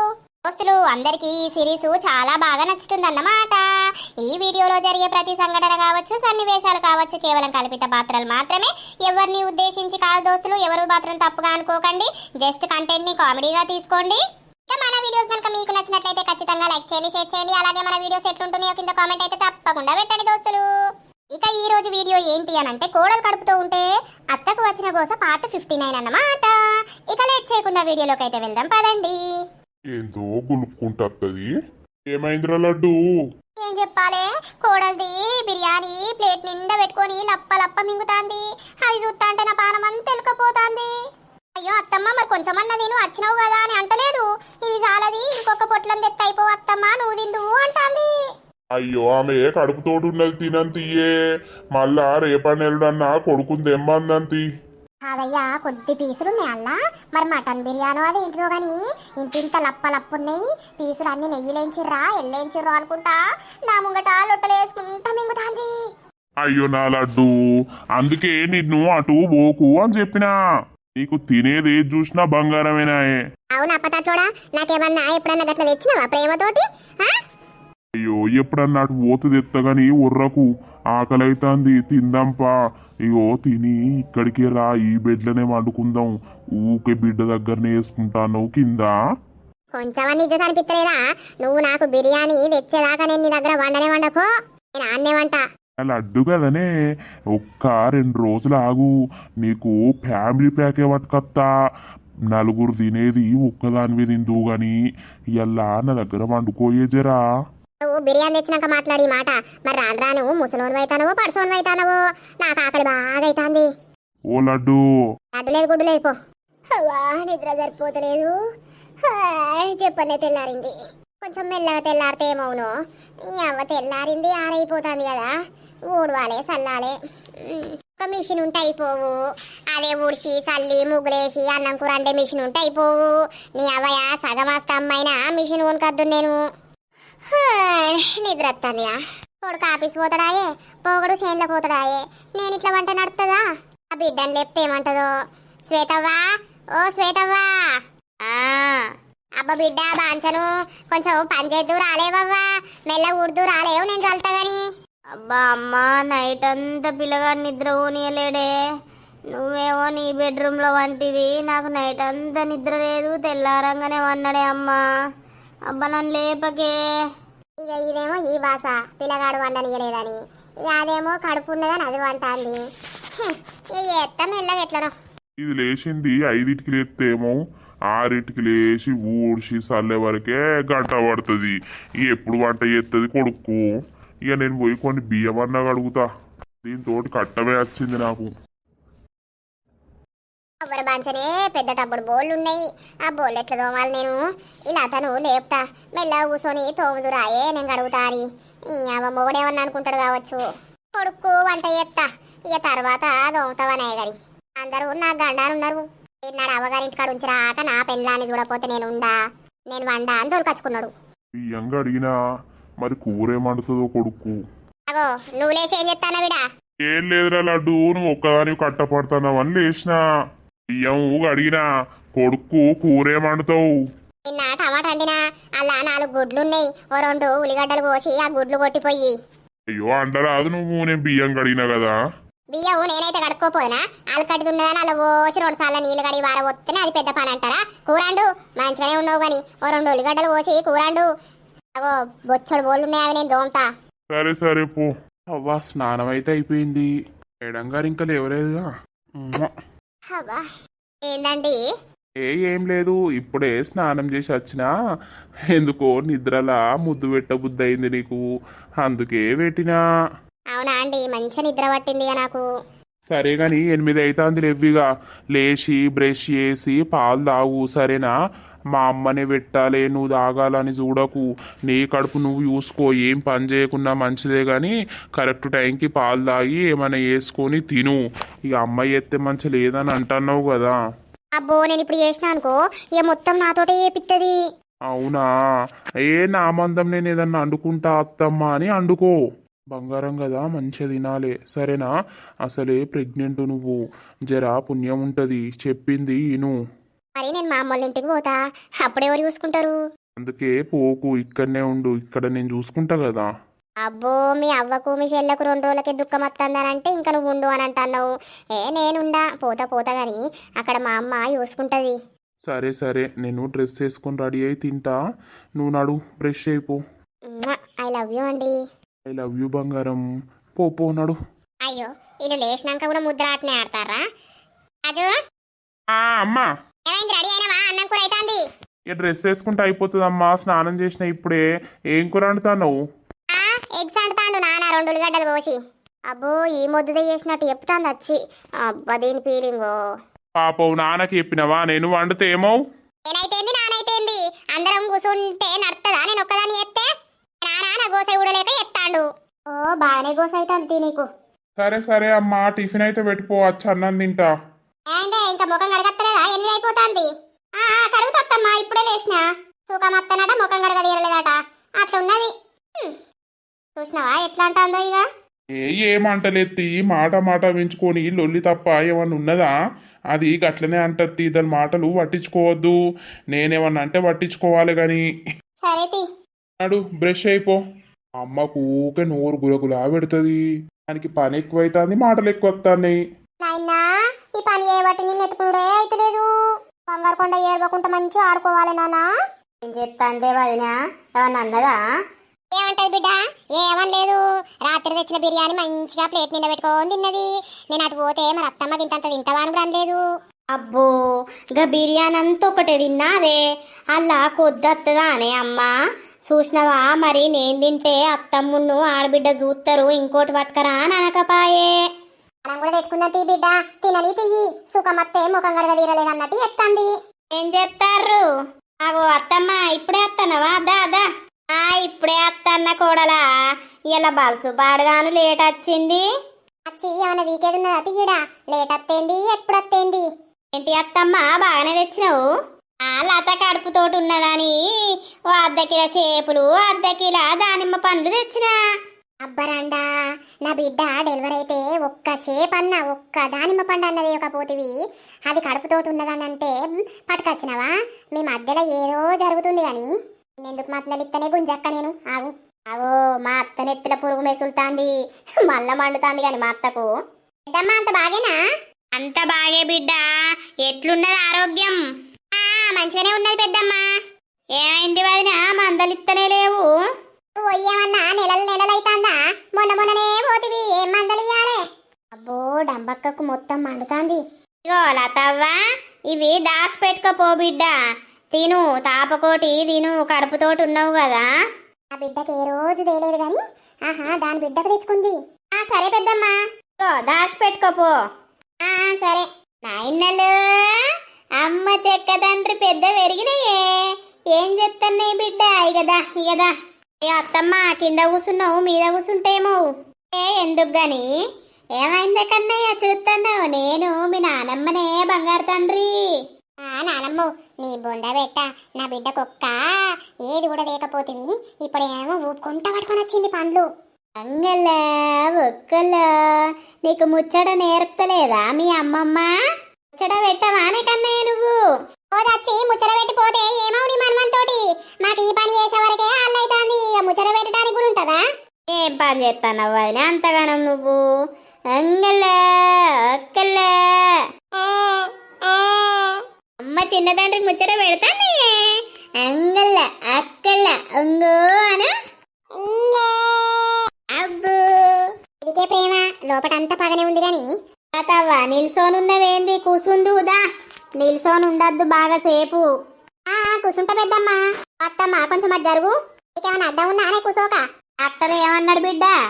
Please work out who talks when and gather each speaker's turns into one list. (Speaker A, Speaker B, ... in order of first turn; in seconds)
Speaker A: 0.5-3.6, 4.2-20.6, 21.3-26.5, 27.1-29.2, 33.6-40.9, 41.5-48.1, 55.0-65.7, 73.5-77.1, 89.8-95.4, 107.8-113.7, 115.3-116.1, 116.7-118.3, 119.1-122.7, 123.3-125.3, 125.9-129.2, 129.7-136.3, 137.3-143.4, 143.9-145.1, 145.7-146.2, 146.8-147.5, 149.4-154.6, 167.6-172.6, 173.2-174.9, 190.6-200.4, 200.9-209.1, 209.7-210.9, 214.9-216.4, 224.3-229.1, 232.5-241.1, 241.8-243.7, 250.1-250.4, 251.1-251.6, 260.5-262.4, 281.4-284.3, 297.1-299.8, 303.8-311.9, 317.3-318.5, 321.6-324.0, 324.9-325.1, 326.9-328.4, 333.3-335.6, 336.1-339.8, 343.1-346.9, 347.4-351.1, 354.9-357.1, 357.6-362.9, 363.8-365.1, 375.6-376.0, 383.4-383.8, 384.3-386.3, 386.9-389.1, 392.5-400.0, 412.4-416.9, 426.7-430.0, 439.2-439.9, 440.4-444.7, 445.3-449.9, 450.4-454.9, 457.5-458.4, 462.3-463.9, 467.4-471.6, 472.2-474.2, 481.9-486.4, 488.6-489.3, 506.6-509.6, 510.2-513.7, 522.1-528.2, 534.5-536.2, 542.6-543.8, 545.4-547.5, 553.3-557.6
Speaker B: 29.9-31.5, 32.1-33.0, 48.8-51.1, 51.8-54.4, 66.4-67.3, 68.0-70.3, 71.0-73.1, 78.0-82.5, 83.1-88.9, 95.8-96.7, 97.4-98.9, 99.4-101.5, 102.3-104.8, 105.4-107.2, 114.3-114.8, 175.4-177.4, 177.9-183.6, 184.3-186.0, 186.6-188.3, 211.3-212.1, 212.8-214.4, 216.9-220.0, 220.7-221.7, 222.2-223.6, 229.7-231.9, 244.1-244.9
Speaker C: 148.3-148.9, 155.2-158.5, 159.3-164.8, 165.7-166.7, 389.6-391.8, 400.5-400.9, 401.5-405.7, 406.3-411.7, 417.4-418.2, 418.8-423.2, 423.9-426.0, 430.5-432.2, 432.9-434.6, 435.3-438.5, 455.5-456.9, 459.0-460.1, 460.6-461.8, 464.6-466.7, 474.6-475.6, 476.1-477.8, 478.3-481.3, 486.8-487.9, 489.6-490.8, 491.4-496.5, 497.0-501.1, 501.8-505.9, 514.2-514.7, 515.3-519.3, 520.0-521.5, 528.7-531.0, 531.7-534.2, 536.6-541.9, 544.2-544.9, 547.9-550.4, 551.0-552.7, 558.0-559.1
Speaker D: 245.3-246.9, 247.4-249.5, 252.2-254.7, 255.5-258.2, 258.8-259.8, 263.1-268.1, 268.7-280.8, 284.9-285.3, 286.1-289.1, 289.7-291.9, 292.4-293.8, 294.3-296.6, 300.2-303.3, 312.5-315.0, 315.6-316.8, 319.1-320.0, 320.6-321.2, 325.9-326.5, 328.9-332.8, 340.4-342.6, 351.6-354.3, 365.6-369.5, 370.1-372.8, 373.3-375.1, 376.6-377.6, 378.2-383.0